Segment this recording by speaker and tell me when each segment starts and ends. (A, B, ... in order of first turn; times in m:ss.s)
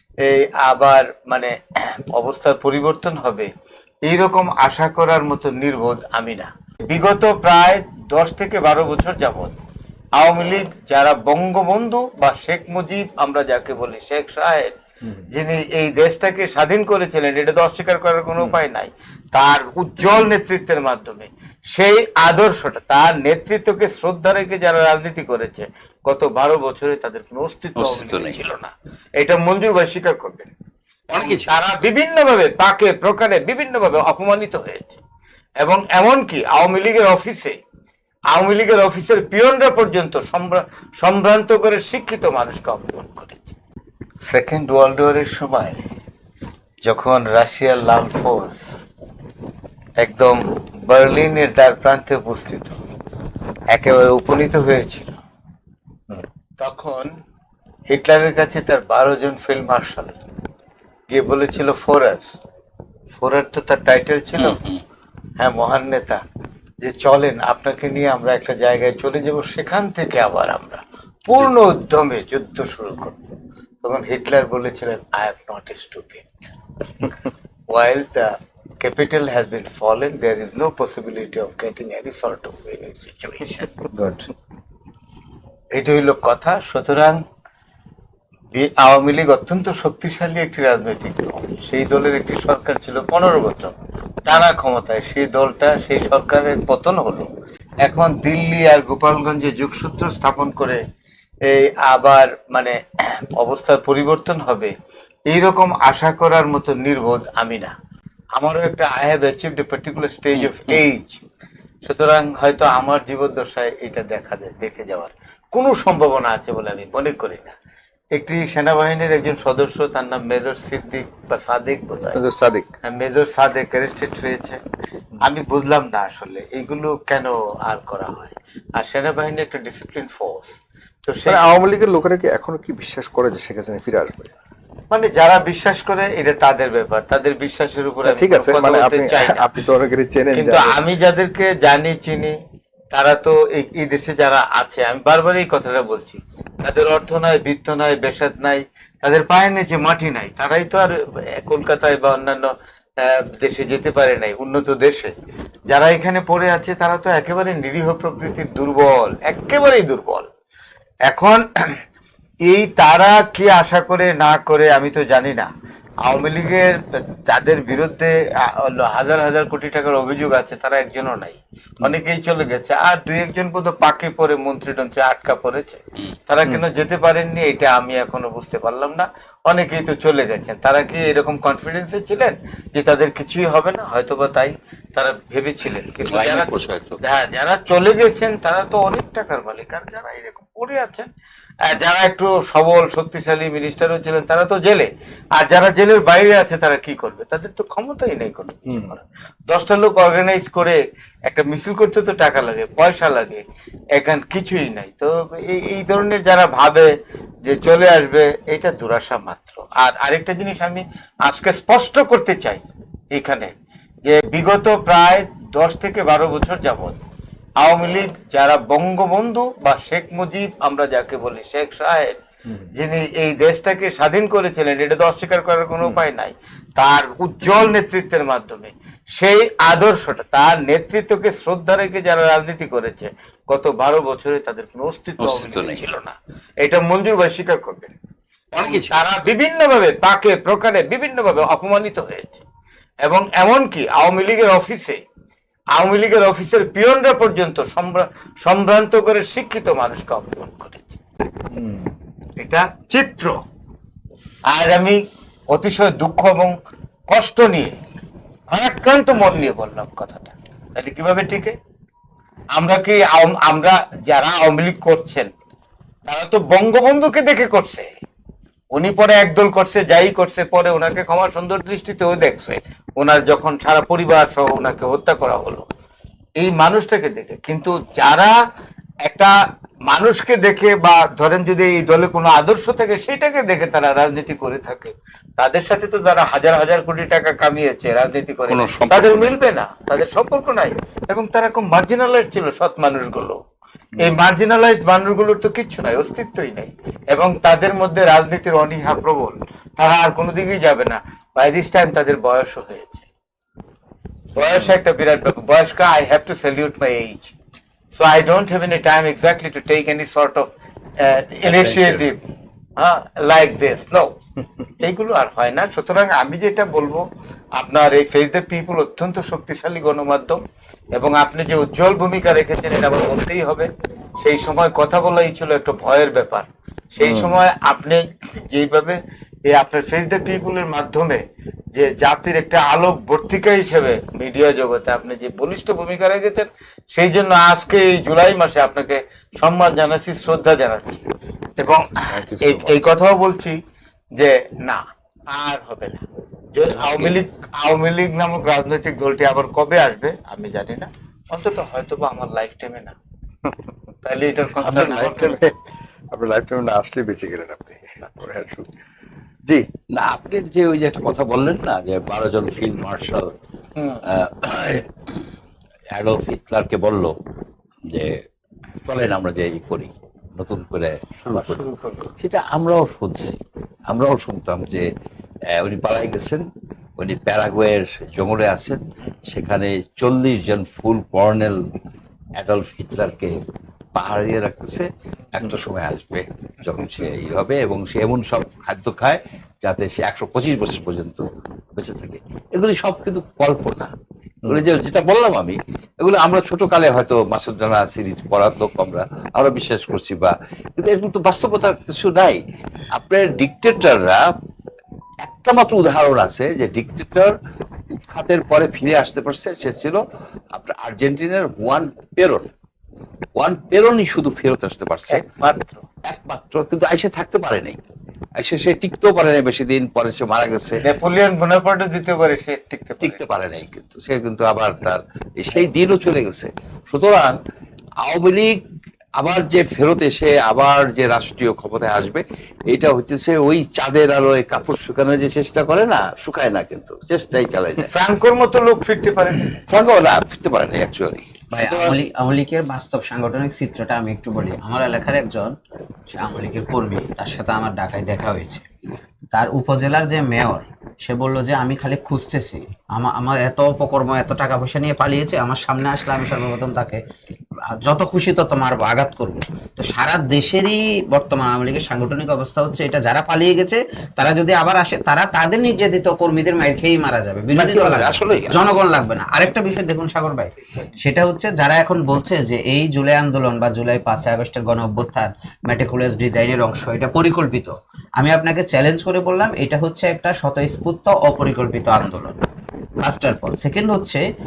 0:00.2-0:01.5 A
0:02.2-0:03.5 A
0:04.1-0:09.6 A
0:10.2-0:14.7 A
0:15.3-0:30.5 A
0:27.8-0:28.4 B
0:31.1-0:31.5 B
0:31.1-0:35.0 A
0:35.6-0:37.6 A
0:38.3-0:43.6 A
0:44.3-0:45.8 A
0:46.8-0:48.7 A
0:50.0-0:52.8 A
0:53.7-0:55.2 A
0:56.6-0:57.1 A
0:57.9-1:00.2 A
1:01.1-1:02.3 A
1:03.1-1:04.6 A
1:04.4-1:04.8 B
1:05.4-1:06.2 A
1:06.8-1:13.3 A
1:13.8-1:16.5 A
1:17.7-1:23.8 A
1:25.7-1:27.2 A
1:28.5-1:37.3 A
1:37.8-1:40.8 A
1:41.5-1:42.8 A
1:43.4-1:44.7 A
1:45.3-1:47.7 A
1:48.4-1:51.2 A
1:50.3-1:50.8 B
1:51.9-1:57.6 A
1:58.1-2:02.2 A
2:02.1-2:02.7 C
2:02.8-2:04.6 A
2:05.2-2:10.5 A
2:11.1-2:11.4 A
2:11.3-2:14.3 C
2:14.9-2:19.5 A
2:18.0-2:20.8 C
2:20.4-2:22.4 A
2:22.9-2:35.1 A
2:35.7-2:40.3 A
2:41.1-2:41.4 A
2:42.5-2:45.5 A
2:46.0-3:11.1 A
3:06.0-3:07.0 B
3:11.6-3:26.9 A
3:27.4-3:33.5 A
3:34.1-3:37.0 A
3:37.6-3:57.9 A
3:55.2-3:55.9 B
3:58.5-3:59.0 B
3:58.6-4:02.4 A
4:03.0-4:05.0 A
4:05.8-4:11.0 A
4:11.5-4:11.9 C
4:12.4-4:13.4 A
4:14.5-4:15.0 A
4:15.5-4:16.6 A
4:17.1-4:17.7 A
4:18.5-4:21.6 A
4:22.6-4:25.3 A
4:26.1-4:27.9 A
4:28.7-4:35.6 A
4:36.4-4:38.3 A
4:39.0-4:39.3 A
4:39.9-4:53.4 A
4:48.5-4:49.4 B
4:54.0-5:03.1 A
5:04.4-5:07.3 A
5:04.4-5:04.8 B
5:07.9-5:10.5 A
5:11.0-5:12.2 A
5:11.4-5:12.1 B
5:12.8-5:14.1 A
5:14.8-5:17.0 A
5:17.6-5:20.4 A
5:21.0-5:23.7 A
5:24.2-5:29.0 A
5:27.0-5:27.3 C
5:29.5-5:31.2 A
5:31.8-5:41.0 A
5:41.6-5:43.6 A
5:42.1-5:42.8 C
5:44.2-5:46.0 A
5:46.6-5:53.0 A
5:46.7-5:47.2 B
5:54.0-5:55.4 A
5:54.6-5:55.5 C
5:56.1-5:58.7 C
5:59.9-6:03.3 B
6:03.8-6:04.0 A
6:04.1-6:04.9 B
6:06.0-6:07.1 B
6:07.9-6:08.2 B
6:08.9-6:11.6 B
6:11.3-6:12.1 A
6:12.2-6:14.9 B
6:15.5-6:16.4 B
6:17.0-6:21.7 B
6:22.4-6:23.4 B
6:24.0-6:31.2 B
6:31.8-6:33.9 B
6:34.4-6:42.4 B
6:42.9-6:44.2 B
6:45.2-6:47.3 B
6:48.0-6:50.0 B
6:50.5-6:52.5 B
6:53.4-6:55.2 B
6:55.1-6:55.8 A
6:56.1-6:57.8 B
6:58.4-7:00.8 B
7:00.8-7:03.2 A
7:03.0-7:07.4 B
7:08.0-7:08.6 B
7:09.2-7:17.9 B
7:17.8-7:19.5 A
7:19.7-7:22.0 B
7:21.5-7:25.6 D
7:26.1-7:28.6 D
7:29.3-7:37.0 D
7:37.8-8:02.4 D
7:47.5-7:48.7 B
8:03.0-8:04.2 D